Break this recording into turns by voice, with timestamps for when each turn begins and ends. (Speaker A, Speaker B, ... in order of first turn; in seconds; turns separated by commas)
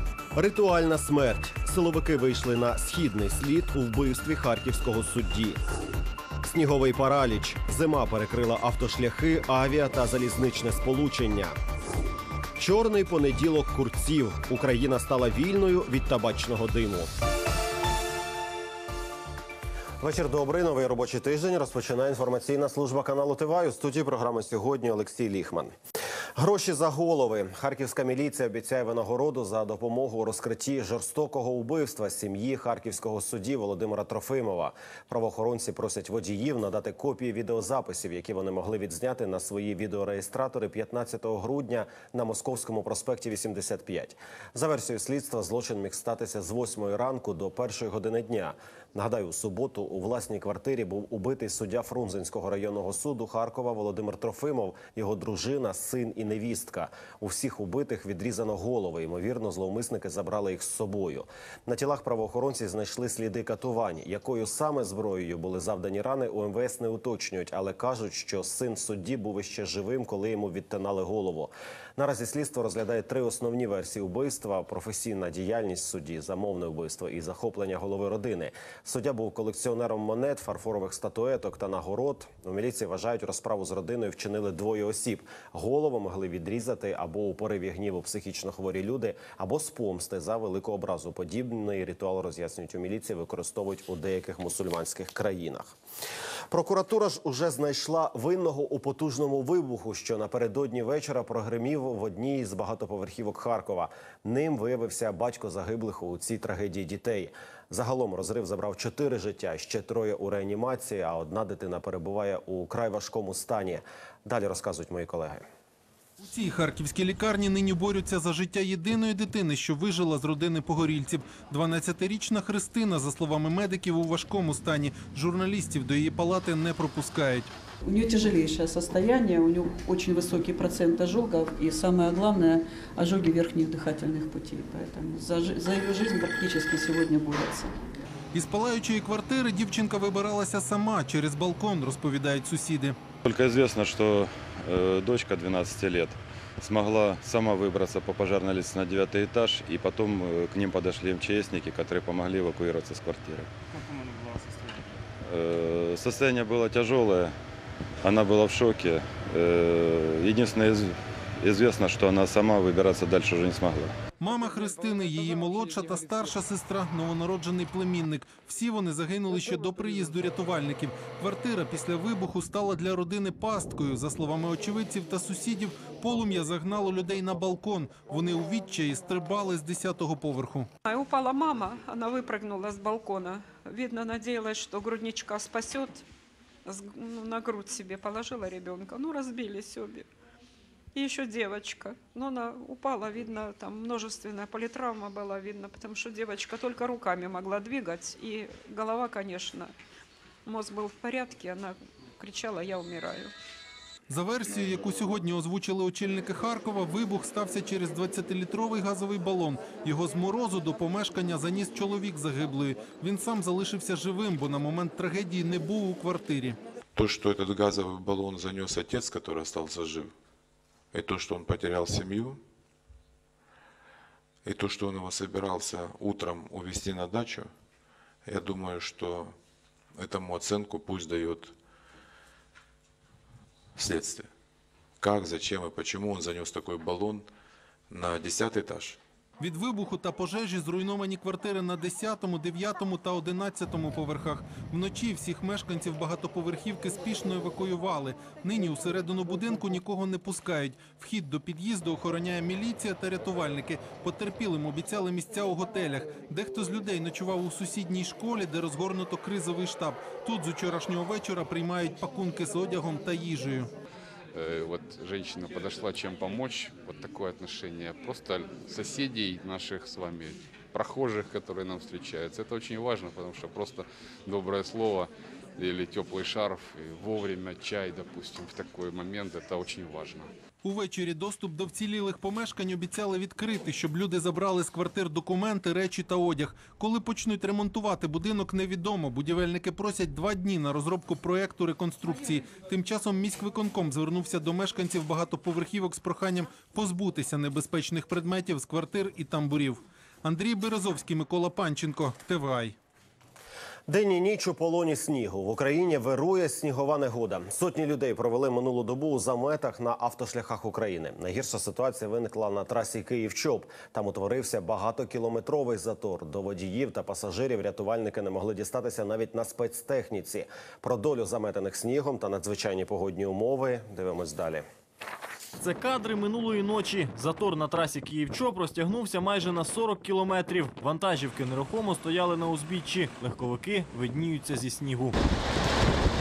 Speaker A: 0.3-5.6, Speaker A: 6.4-11.6, Speaker A: 12.6-17.1, Speaker A: 20.0-25.7, Speaker A: 26.4-95.8, Speaker A: 96.5-115.5, Speaker B: 116.2-127.5, Speaker C: 127.8-138.0, Speaker B: 138.3-143.0, Speaker D: 143.2-153.5, Speaker D: 155.2-157.3, Speaker D: 158.0-164.0, Speaker B: 164.2-180.7, Speaker E: 180.8-186.1, Speaker E: 186.7-190.1, Speaker E: 190.9-199.7, Speaker E: 200.4-203.3, Speaker B: 204.1-216.6, Speaker F: 217.0-220.1, Speaker F: 220.9-222.4, Speaker F: 224.4-227.5, Speaker F: 228.3-229.3, Speaker F: 230.0-231.6, Speaker F: 233.8-234.3, Speaker F: 235.0-237.3, Speaker F: 237.9-239.0, Speaker B: 239.4-263.7, Speaker G: 264.3-280.3, Speaker B: 280.6-302.8, Speaker A: 303.9-324.6, Speaker H: 325.6-335.2